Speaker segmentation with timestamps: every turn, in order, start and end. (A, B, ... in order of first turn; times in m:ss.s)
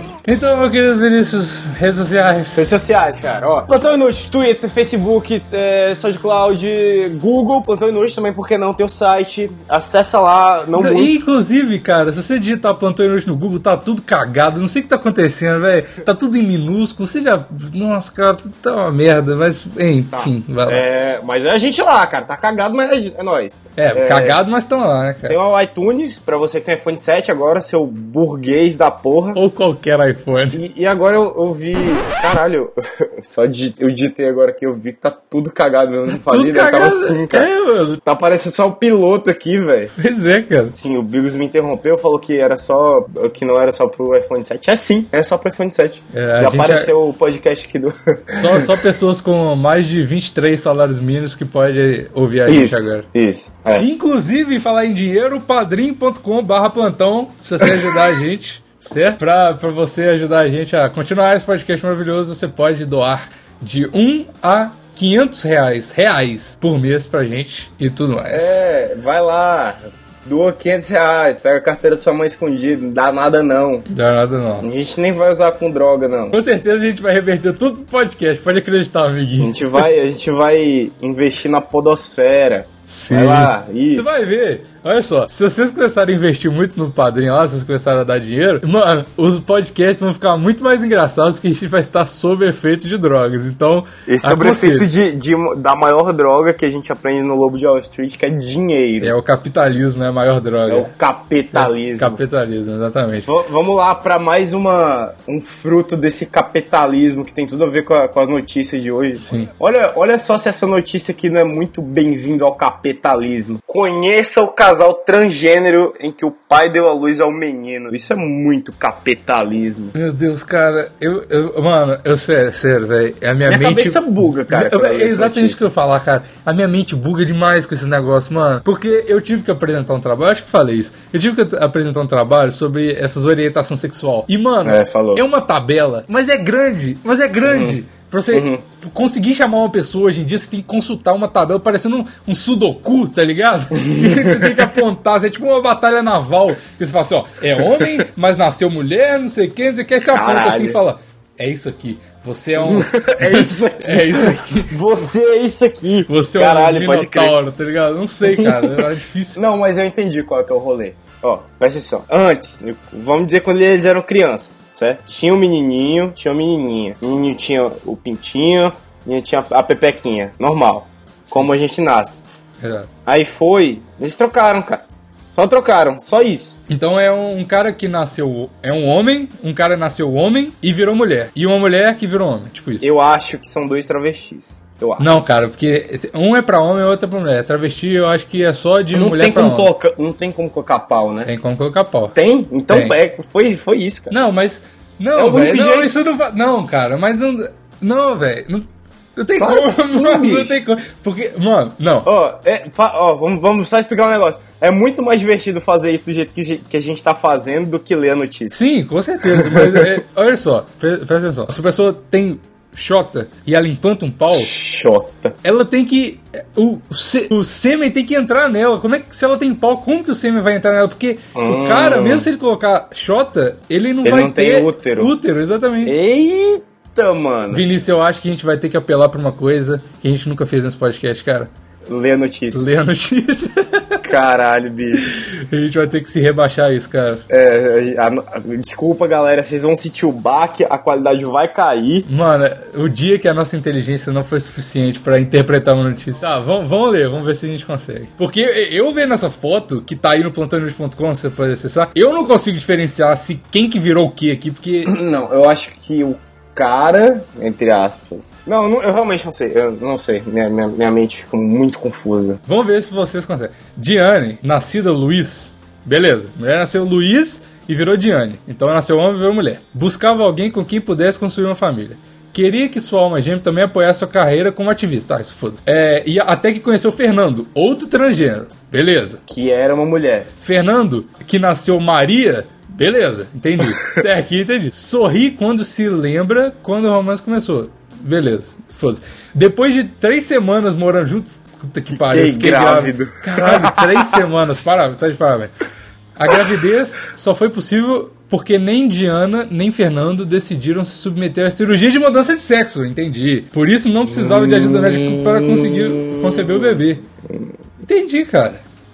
0:00.2-0:02.7 A
0:02.5-0:11.1 B
0:10.8-0:20.8 A
0:20.1-0:24.4 B
0:23.8-0:25.4 A
0:25.3-0:29.4 B
0:29.4-0:30.6 A
0:30.5-0:37.5 B
0:36.1-0:38.0 A
0:38.0-0:39.9 B
0:40.0-0:40.7 A
0:40.7-0:48.7 B
0:46.1-0:46.9 A
0:48.3-0:53.0 A
0:52.5-0:53.8 B
0:53.8-1:08.6 A
1:08.3-1:13.8 B
1:13.9-1:14.6 A
1:14.6-1:16.4 B
1:16.3-1:19.8 A
1:19.4-1:24.1 B
1:22.9-1:34.9 A
1:34.1-1:39.1 B
1:39.0-1:40.9 A
1:40.7-1:42.2 B
1:41.5-1:43.3 A
1:43.2-1:59.9 B
1:49.2-1:49.5 A
1:59.9-2:34.7 A
2:03.5-2:05.7 B
2:14.6-2:15.2 B
2:17.4-2:17.8 B
2:18.3-2:18.6 B
2:23.7-2:24.6 B
2:30.0-2:30.8 B
2:32.6-2:37.4 B
2:36.1-2:39.4 A
2:38.2-2:52.2 B
2:52.6-2:52.9 A
2:53.0-2:56.6 B
2:56.7-3:02.9 A
3:02.8-3:05.2 B
3:05.0-3:09.7 A
3:08.9-3:11.3 B
3:11.2-3:12.1 A
3:12.1-3:14.1 B
3:12.7-3:13.0 A
3:14.1-3:22.1 A
3:15.2-3:16.0 B
3:19.4-3:20.6 B
3:22.0-3:28.6 B
3:28.5-3:34.5 A
3:29.3-3:29.9 B
3:34.3-3:35.3 B
3:35.4-3:45.9 A
3:41.3-3:42.3 B
3:44.0-3:45.1 B
3:45.8-3:47.6 B
3:47.5-3:51.5 A
3:51.9-3:52.6 B
3:52.5-3:54.0 A
3:54.0-3:55.1 B
3:55.0-3:57.2 A
3:57.3-4:02.0 B
4:02.1-4:14.9 A
4:14.8-4:22.4 B
4:22.5-4:39.2 A
4:39.3-4:40.3 B
4:40.4-4:55.5 A
4:51.9-4:54.2 B
4:56.2-5:07.0 A
5:04.1-5:07.5 B
5:07.8-5:08.6 A